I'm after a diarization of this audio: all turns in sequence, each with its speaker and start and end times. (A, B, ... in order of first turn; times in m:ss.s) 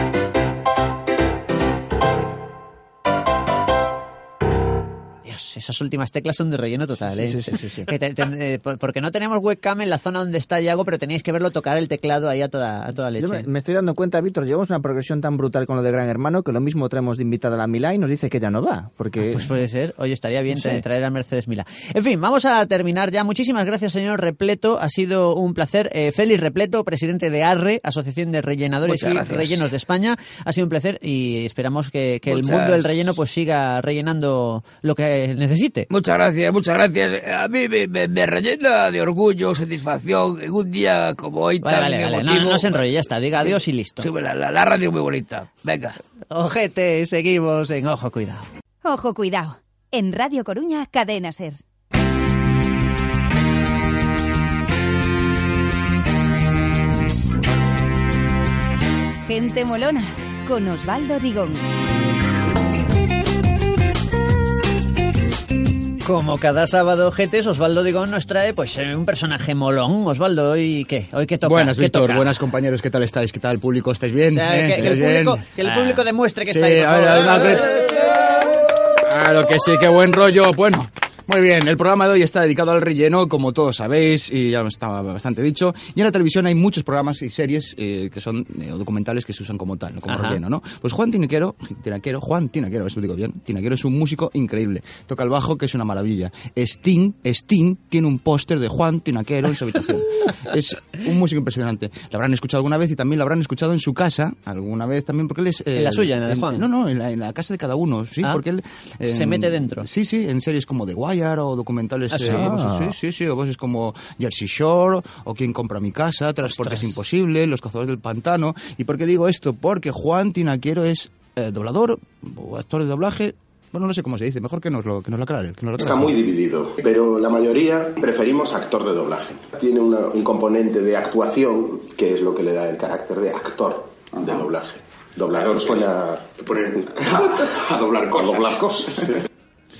0:05.2-0:13.5 A
0:07.2-0:07.9 B
0:13.2-0:19.5 B
0:19.2-0:35.9 A
0:20.5-0:20.8 B
0:28.8-0:29.6 C
0:32.3-0:32.9 C
0:35.9-0:42.8 C
0:41.6-0:44.1 A
0:44.0-0:46.0 C
0:46.3-0:48.5 A
0:48.8-0:51.6 D
0:59.2-1:01.6 D
1:06.0-1:12.3 A
1:11.4-1:15.5 E
1:14.3-1:17.8 A
1:16.4-1:17.8 E
1:19.0-2:06.1 E
1:30.1-1:30.4 A
1:45.8-1:46.6 A
1:49.1-1:49.9 A
1:52.1-1:52.5 A
1:52.2-1:53.0 B
1:56.4-1:56.9 A
2:05.8-2:19.2 F